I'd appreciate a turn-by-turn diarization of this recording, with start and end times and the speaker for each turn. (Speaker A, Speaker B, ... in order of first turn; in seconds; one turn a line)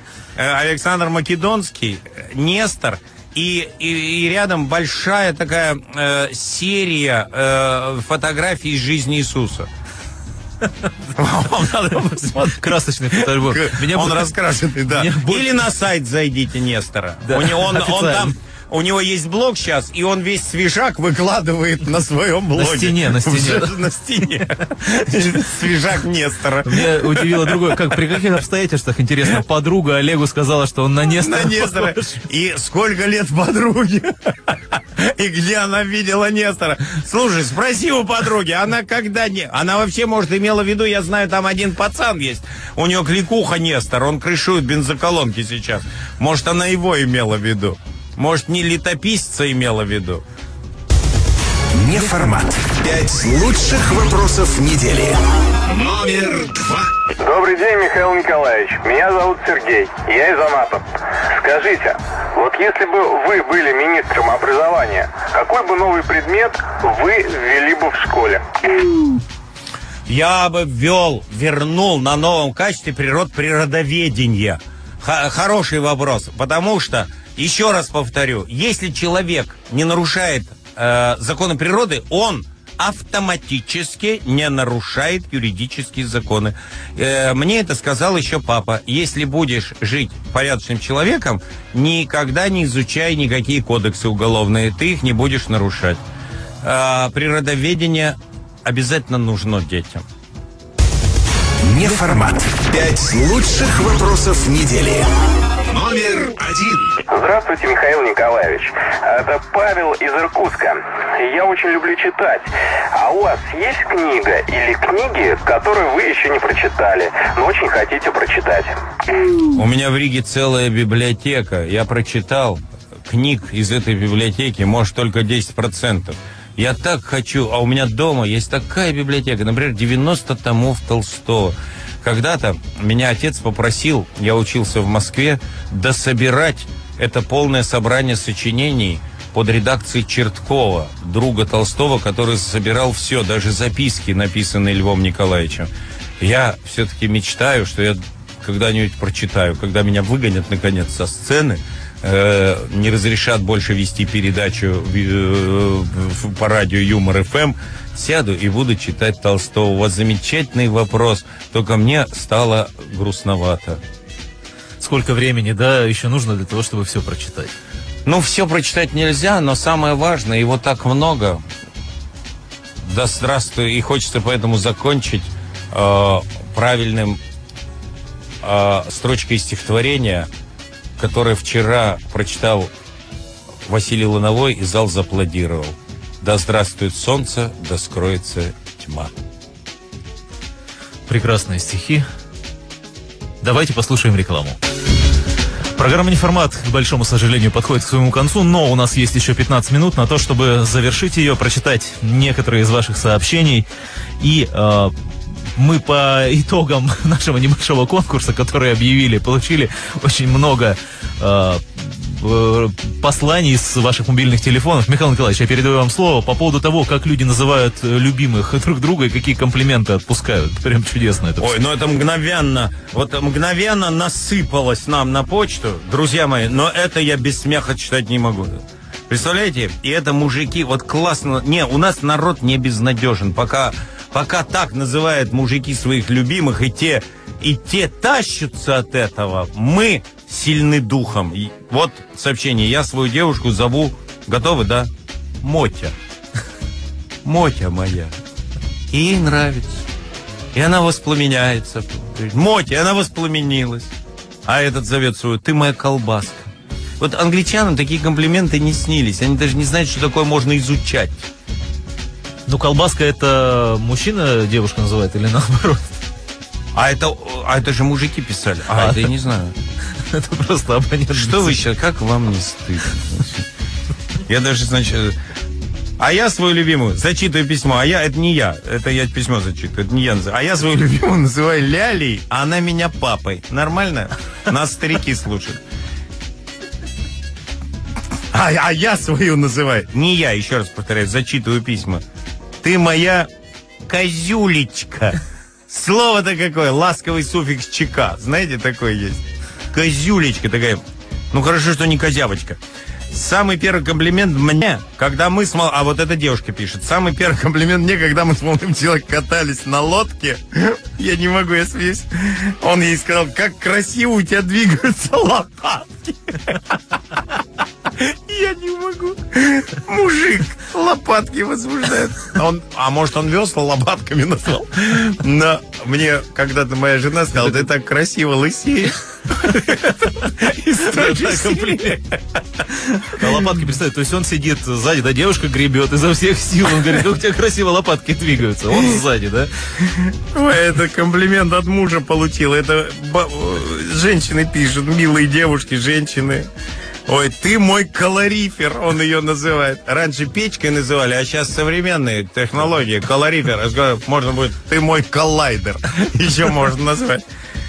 Speaker A: 0.4-9.7
Speaker A: 11.2-28.2
Speaker B: 12.3-14.3
Speaker B: 14.9-15.7
Speaker B: 17.2-18.3
Speaker B: 22.6-23.8
Speaker B: 26.7-32.2
Speaker A: 31.1-50.2
Speaker C: 51.8-55.2
Speaker C: 55.7-56.9
Speaker D: 57.2-68.4
Speaker A: 70.1-96.0
Speaker A: 96.6-100.0
Speaker C: 101.6-105.1
Speaker C: 105.7-106.9
Speaker D: 107.1-118.8
Speaker A: 119.5-163.8
Speaker B: 164.8-167.5
Speaker A: 168.1-171.4
Speaker A: 172.8-177.2
Speaker A: 178.4-180.3
Speaker A: 181.0-182.7
Speaker A: 183.7-189.1
Speaker B: 191.1-192.1
Speaker B: 193.4-194.6
Speaker B: 195.8-203.7
Speaker B: 204.2-204.9
Speaker B: 205.6-221.5
Speaker A: 221.4-245.9
Speaker A: 247.2-248.2
Speaker A: 248.9-249.9
Speaker A: 250.5-253.9
Speaker A: 254.4-256.5
Speaker A: 257.0-261.3
Speaker B: 262.5-265.9
Speaker A: 266.8-269.6
Speaker B: 268.8-269.1
Speaker B: 270.1-271.6
Speaker A: 271.1-273.5
Speaker A: 274.3-275.2
Speaker A: 276.0-285.6
Speaker A: 288.3-292.0
Speaker A: 292.6-293.3
Speaker A: 293.9-302.6
Speaker A: 303.1-317.2
Speaker A: 317.9-332.6
Speaker B: 330.9-331.9
Speaker B: 333.0-339.5
Speaker A: 333.2-333.6
Speaker A: 339.8-346.5
Speaker A: 347.1-357.2